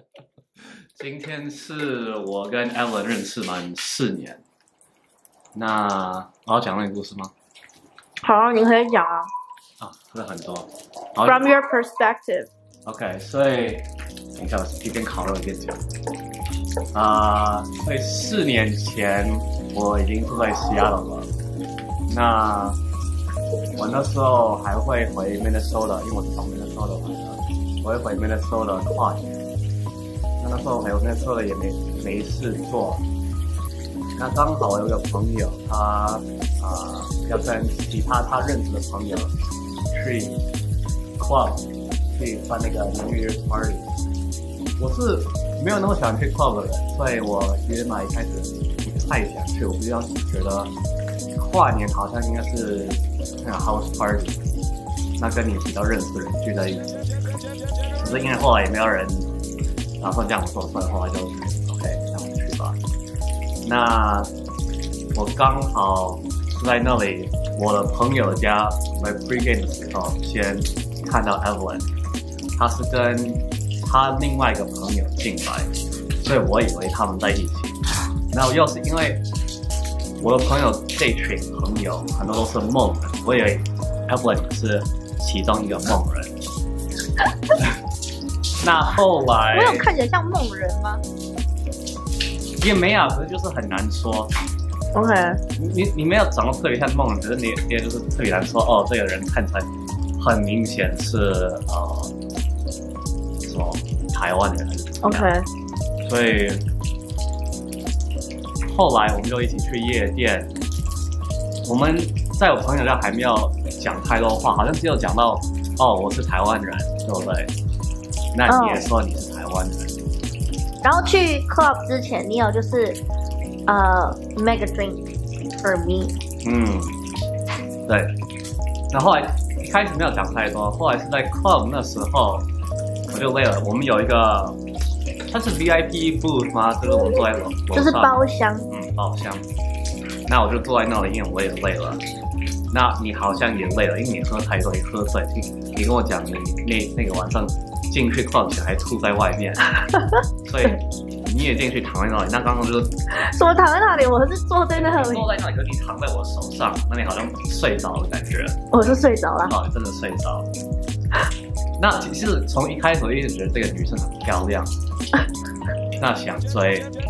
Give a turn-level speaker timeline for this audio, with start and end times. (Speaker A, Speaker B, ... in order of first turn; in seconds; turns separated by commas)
Speaker A: 0.9-4.4, Speaker A: 5.5-7.3, Speaker B: 8.2-9.3, Speaker A: 9.8-11.5, Speaker B: 11.3-12.5, Speaker A: 12.8-15.8, Speaker A: 16.9-21.3, Speaker A: 22.1-22.8, Speaker A: 23.8-29.3, Speaker A: 30.4-33.0, Speaker A: 34.2-39.3, Speaker A: 39.9-40.4, Speaker A: 41.2-43.9, Speaker A: 44.8-50.7, Speaker A: 51.4-54.4, Speaker A: 55.2-56.9, Speaker A: 58.0-59.3, Speaker A: 60.0-62.8, Speaker A: 63.6-64.3, Speaker A: 65.1-71.8, Speaker A: 72.5-77.8, Speaker A: 78.3-79.2, Speaker A: 80.2-86.3, Speaker A: 88.6-89.9, Speaker B: 89.5-91.0, Speaker A: 92.6-94.3, Speaker B: 94.9-95.4, Speaker A: 95.6-102.1, Speaker A: 103.5-105.3, Speaker B: 105.0-105.5, Speaker A: 106.0-106.6, Speaker A: 108.7-110.5, Speaker A: 111.7-117.5, Speaker A: 118.3-119.9, Speaker B: 118.5-118.8, Speaker B: 120.8-123.0, Speaker B: 123.7-125.0, Speaker B: 125.6-126.2, Speaker A: 126.4-127.0, Speaker A: 127.9-128.1, Speaker A: 128.9-132.5, Speaker A: 133.1-134.6, Speaker A: 135.3-139.4, Speaker B: 137.7-138.7, Speaker A: 140.3-142.0, Speaker A: 142.7-149.7, Speaker A: 150.4-152.9, Speaker B: 153.3-155.2, Speaker A: 154.7-158.6, Speaker B: 158.7-159.5, Speaker A: 159.4-160.5, Speaker A: 161.8-164.7, Speaker A: 166.0-166.9